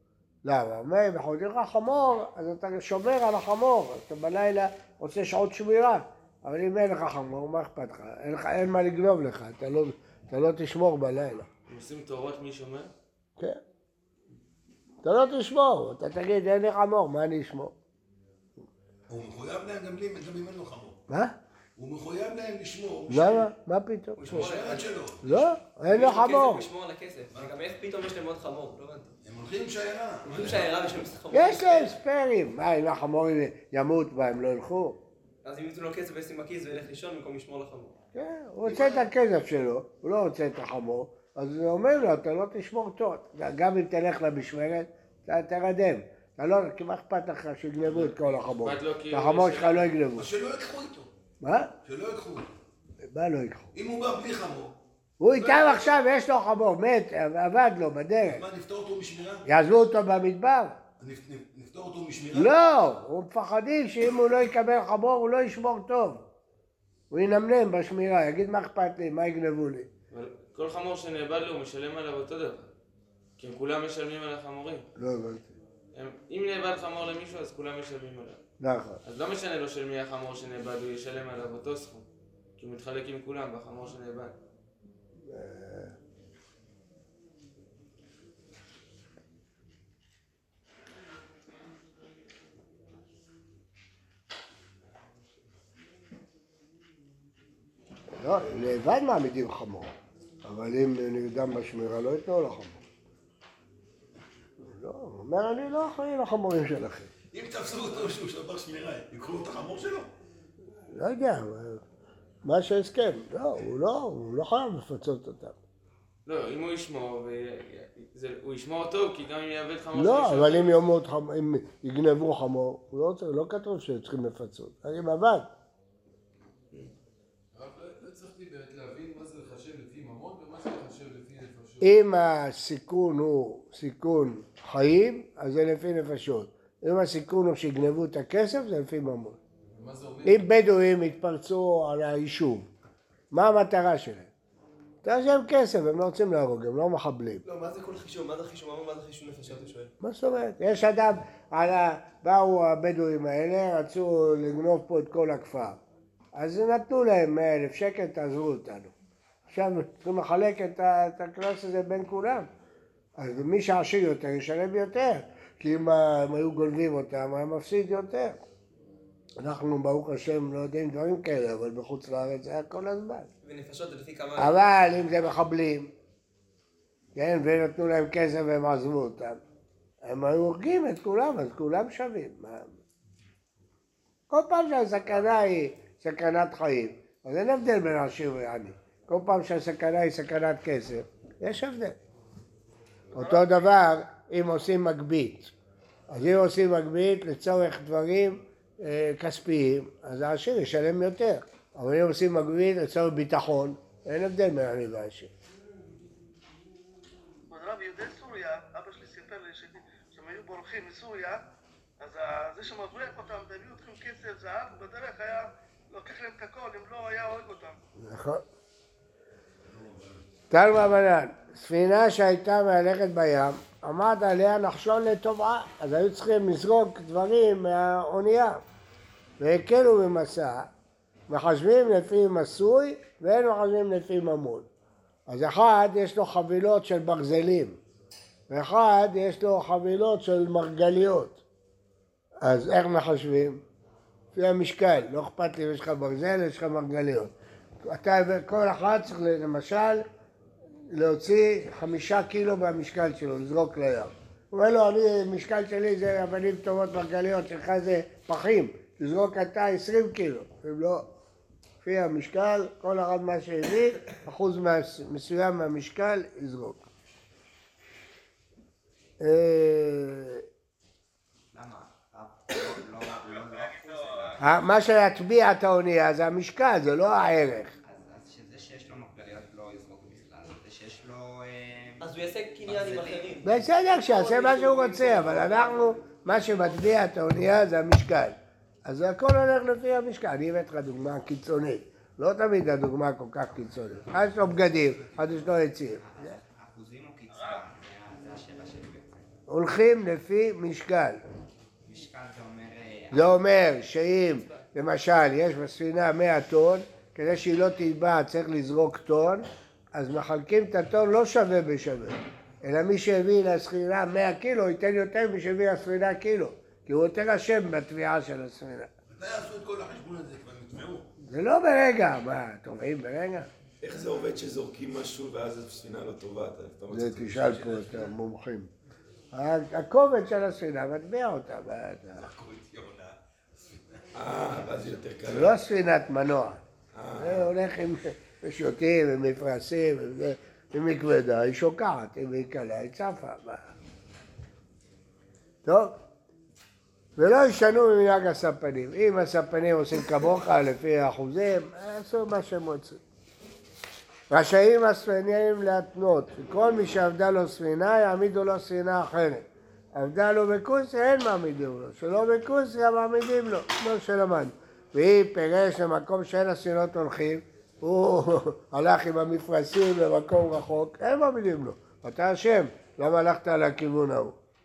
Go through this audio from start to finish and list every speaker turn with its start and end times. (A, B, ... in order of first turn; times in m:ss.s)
0:00.4-0:11.5 A
0:11.7-0:12.9 B
0:15.0-0:17.7 A
0:19.1-0:21.0 C
0:21.1-0:21.4 A
0:21.8-0:23.5 C
0:23.1-0:24.4 A
0:24.2-0:24.9 D
0:24.2-0:25.5 C
0:25.2-0:26.6 A
0:25.8-0:29.1 D
0:29.2-0:30.9 C
0:30.2-0:31.9 D
0:31.3-0:35.0 A
0:35.4-0:38.0 D
0:38.1-0:50.3 A
0:38.7-0:39.0 C
0:47.9-0:49.9 B
0:50.1-0:51.1 C
0:51.4-0:51.7 A
0:51.8-0:52.6 C
0:53.1-0:53.7 A
0:53.8-0:54.8 C
0:55.2-0:58.4 A
0:55.3-0:56.0 C
0:58.2-0:59.4 C
0:59.4-1:00.8 A
1:01.0-1:02.5 C
1:02.3-1:06.2 A
1:07.1-1:09.9 A
1:10.1-1:12.7 B
1:13.4-1:14.8 B
1:15.0-1:15.5 A
1:15.9-1:18.4 B
1:18.6-1:19.0 A
1:19.0-1:22.0 B
1:22.6-1:24.3 B
1:25.2-1:25.9 A
1:38.2-1:39.9 A
1:40.4-1:42.8 A
1:44.6-1:47.1 A
1:47.3-1:50.1 C
1:50.9-1:51.8 A
1:52.4-1:55.6 A
1:56.2-2:00.8 B
1:59.9-2:05.5 A
2:07.5-2:11.9 E
2:11.8-2:19.4 A
2:19.8-2:20.5 E
2:20.2-2:22.7 A
2:23.3-2:24.3 A
2:25.0-2:27.4 A
2:27.4-2:29.9 D
2:30.0-2:35.8 A
2:36.3-2:38.9 A
2:39.5-2:42.5 A
2:43.2-2:48.4 A
2:49.4-2:53.3 A
2:53.4-2:54.6 D
2:54.4-2:55.9 A
2:57.2-2:59.4 A
3:00.0-3:02.8 A
3:04.3-3:12.0 A
3:13.1-3:15.5 A
3:13.1-3:13.6 F
3:16.1-3:25.3 A
3:27.5-3:31.4 F
3:32.0-3:37.8 F
3:38.0-3:38.4 A
3:39.6-3:40.2 C
3:40.5-3:48.6 A
3:49.4-3:50.7 A
3:51.3-3:54.7 A
3:55.3-3:57.8 A
3:58.5-4:01.4 A
4:02.4-4:03.6 A
4:04.3-4:07.3 A
4:07.8-4:10.0 A
4:10.9-4:21.0 A
4:21.8-4:26.8 A
4:29.2-4:30.4 A
4:31.5-4:34.6 G
4:34.4-4:37.7 A
4:37.8-4:43.4 G
4:42.0-4:46.8 D
4:43.4-4:56.4 A
4:54.2-4:55.4 C
4:55.4-4:59.3 G
4:59.5-5:01.2 A
5:01.8-5:03.4 G
5:03.1-5:18.9 A
5:04.3-5:04.6 D
5:19.1-5:21.1 C
5:21.2-5:23.5 A
5:23.8-5:28.0 H
5:26.9-5:28.7 A
5:27.4-5:28.1 C
5:29.3-5:32.3 A
5:32.2-5:35.0 C
5:34.1-5:35.6 H
5:35.3-5:36.6 A
5:36.9-5:37.5 H
5:37.2-5:43.7 A
5:45.6-5:46.0 A
5:47.2-5:53.0 A
5:54.3-6:14.4 A